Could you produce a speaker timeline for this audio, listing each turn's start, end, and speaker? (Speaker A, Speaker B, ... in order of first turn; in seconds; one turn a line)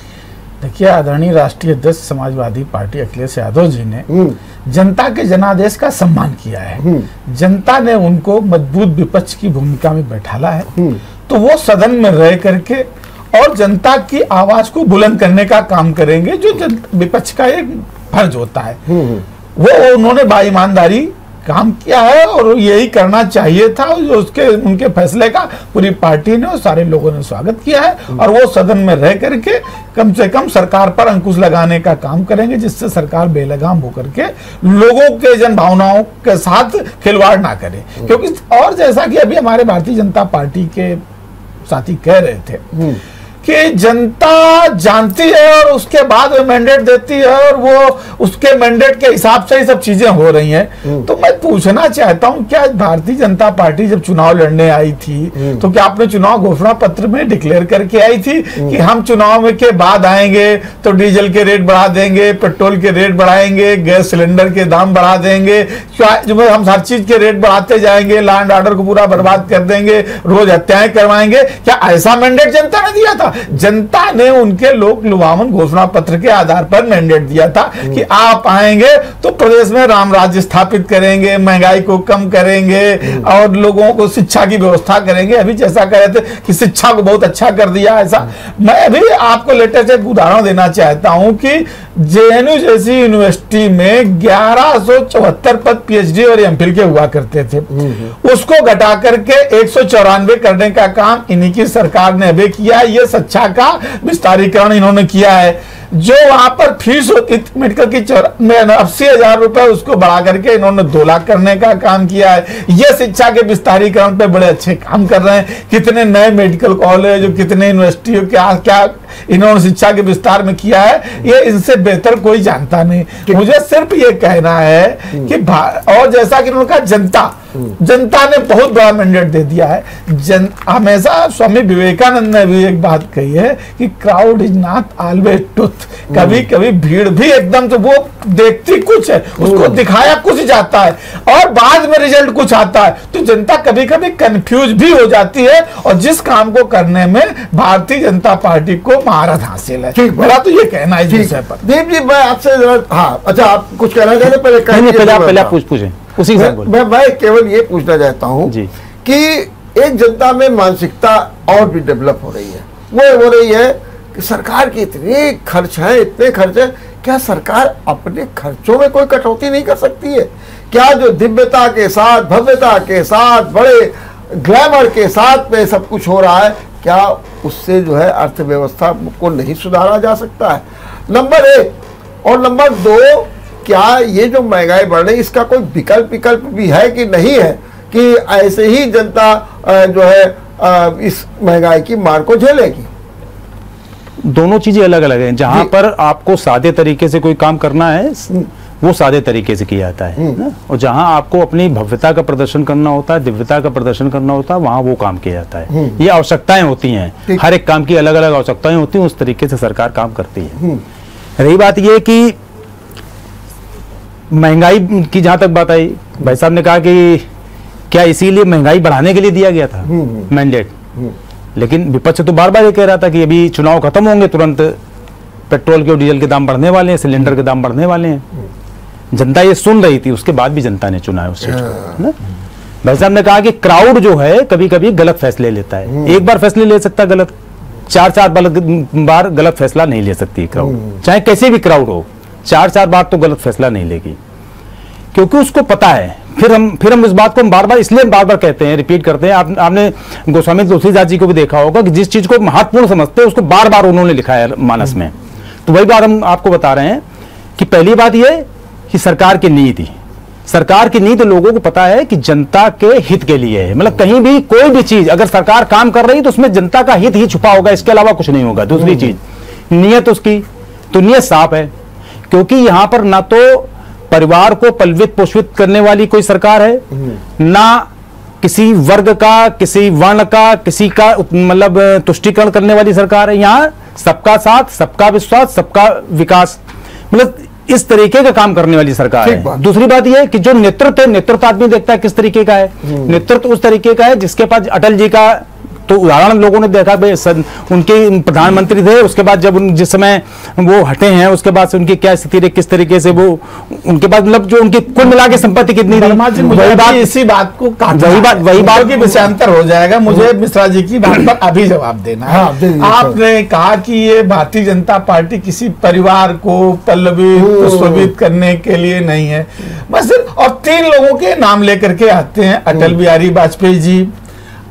Speaker A: 0.6-4.1
Speaker B: 4.1-4.4
Speaker A: 4.7-10.7
Speaker B: 6.8-7.1
Speaker B: 10.8-11.0
Speaker A: 11.2-18.8
Speaker B: 18.9-19.2
Speaker A: 19.6-41.0
Speaker A: 41.6-42.7
Speaker B: 42.7-43.0
Speaker A: 43.4-151.6
Speaker B: 97.7-98.1
Speaker B: 136.1-136.4
Speaker B: 139.4-139.8
Speaker B: 149.9-150.3
Speaker B: 151.1-155.5
Speaker C: 154.7-156.7
Speaker B: 156.3-158.5
Speaker B: 159.0-192.9
Speaker C: 194.2-210.6
Speaker B: 205.7-206.0
Speaker C: 211.4-212.4
Speaker C: 214.3-217.2
Speaker C: 217.9-220.7
Speaker B: 219.9-220.3
Speaker C: 221.5-224.8
Speaker C: 225.5-228.2
Speaker C: 229.1-232.2
Speaker B: 231.6-232.0
Speaker C: 232.8-237.3
Speaker C: 237.9-244.2
Speaker C: 245.1-255.1
Speaker C: 255.6-257.0
Speaker C: 257.6-259.9
Speaker C: 260.5-271.7
Speaker B: 268.9-269.1
Speaker C: 272.3-276.9
Speaker C: 277.4-277.9
Speaker C: 278.4-286.6
Speaker C: 287.1-307.1
Speaker B: 289.2-289.6
Speaker A: 305.9-324.1
Speaker C: 307.9-308.9
Speaker B: 312.3-313.1
Speaker B: 317.4-318.1
Speaker B: 322.7-323.0